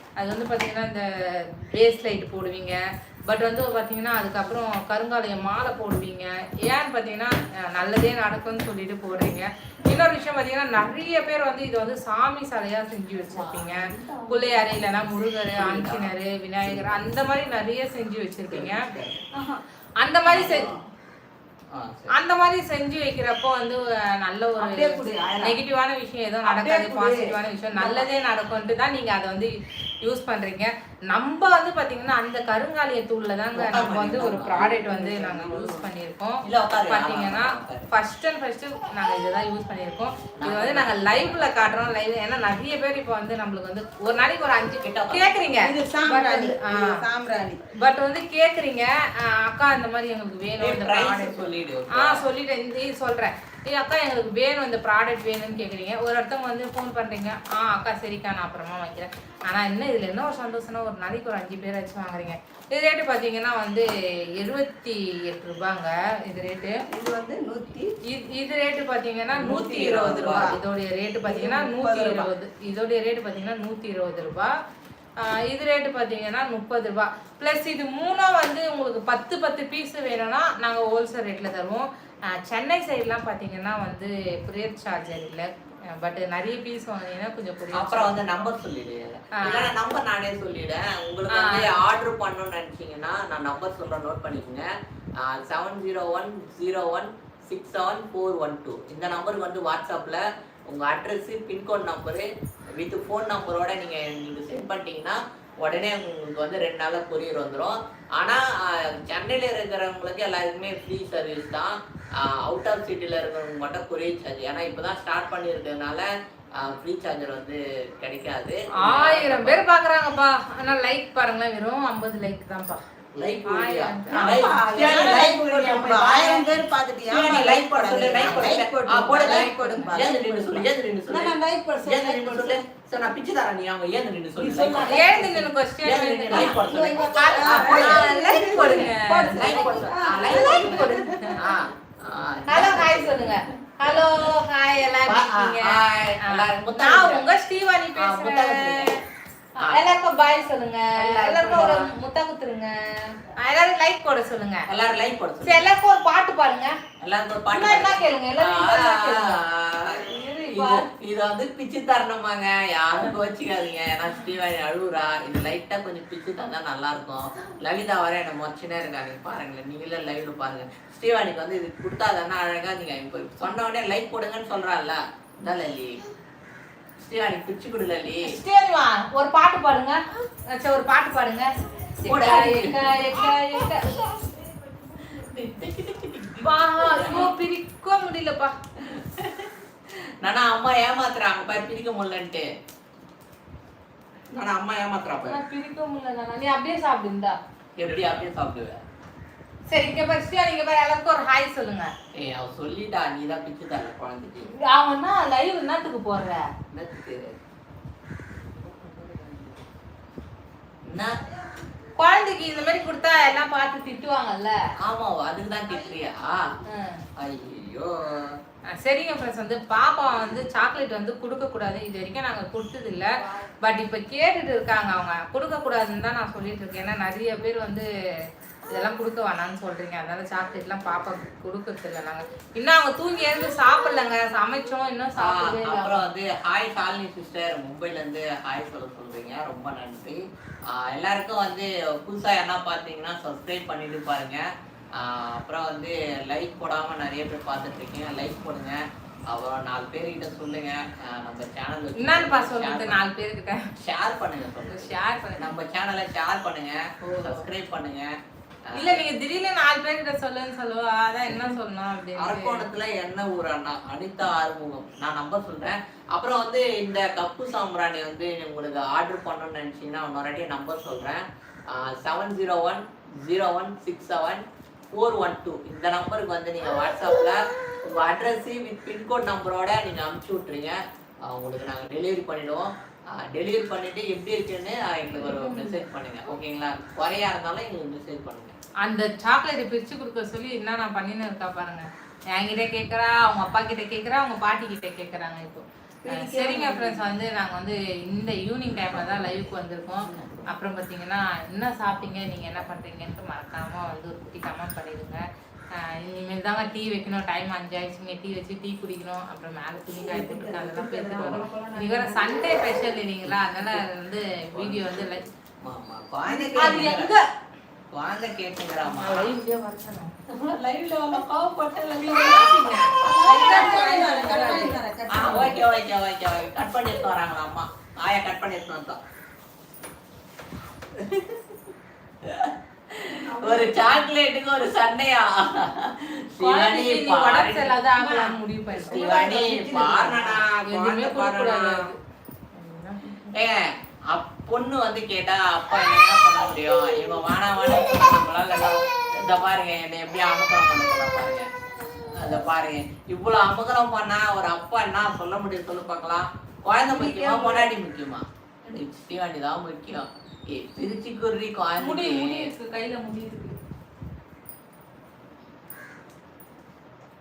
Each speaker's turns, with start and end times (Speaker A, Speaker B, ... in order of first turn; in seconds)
Speaker A: 0.2-18.9, 20.0-20.7, 22.1-47.0, 47.8-51.4, 51.9-66.8, 68.1-74.5, 75.2-88.1, 89.3-89.7, 91.3-91.7, 118.8-122.8, 123.5-124.9, 134.9-141.4, 142.5-149.0, 149.6-154.7, 155.4-156.8, 157.5-159.4, 160.0-160.8, 178.3-184.0, 186.4-188.5, 195.2-197.4, 199.7-201.9, 204.5-206.5, 212.0-214.6, 216.7-217.0, 218.7-227.9, 228.7-236.1, 252.0-253.7, 254.7-255.5, 257.0-257.5, 258.8-262.7, 285.2-285.9, 288.8-305.2, 305.8-315.2, 316.3-317.2, 318.8-320.1, 322.0-325.4, 336.4-339.2, 340.6-342.0, 342.5-343.4, 356.9-357.6, 361.8-363.6
Speaker B: 13.3-14.9, 15.5-17.1, 18.5-19.3, 20.3-20.8, 21.7-22.2, 33.5-35.0, 36.4-37.9, 40.4-41.4, 44.8-45.6, 50.6-52.2, 69.3-70.6, 87.7-94.7, 95.2-102.3, 102.8-119.7, 123.2-135.2, 135.8-144.3, 145.1-147.3, 148.0-149.0, 149.6-150.0, 151.1-151.9, 154.7-155.6, 157.0-176.0, 177.0-178.4, 182.1-183.1, 185.0-187.3, 188.8-192.5, 194.3-195.4, 197.8-198.8, 202.1-204.5, 206.7-207.4, 209.1-209.4, 210.8-211.2, 214.8-216.5, 217.2-218.4, 235.2-253.0, 253.8-258.1, 258.7-259.0, 262.2-288.6, 298.7-300.4, 311.2-311.4, 313.2-313.8, 314.5-317.1, 317.9-319.3, 320.3-329.0, 330.9-331.6, 332.2-341.9, 343.3-351.5, 352.1-362.5
Speaker C: 19.3-19.6, 24.6-25.6, 26.4-28.1, 34.7-35.7, 45.6-47.6, 66.9-68.0, 69.9-70.6, 71.3-72.3, 124.1-132.6, 134.4-135.4, 136.3-141.4, 296.0-297.1, 309.9-312.3, 323.1-325.6, 333.3-334.0, 338.8-340.4, 357.1-357.5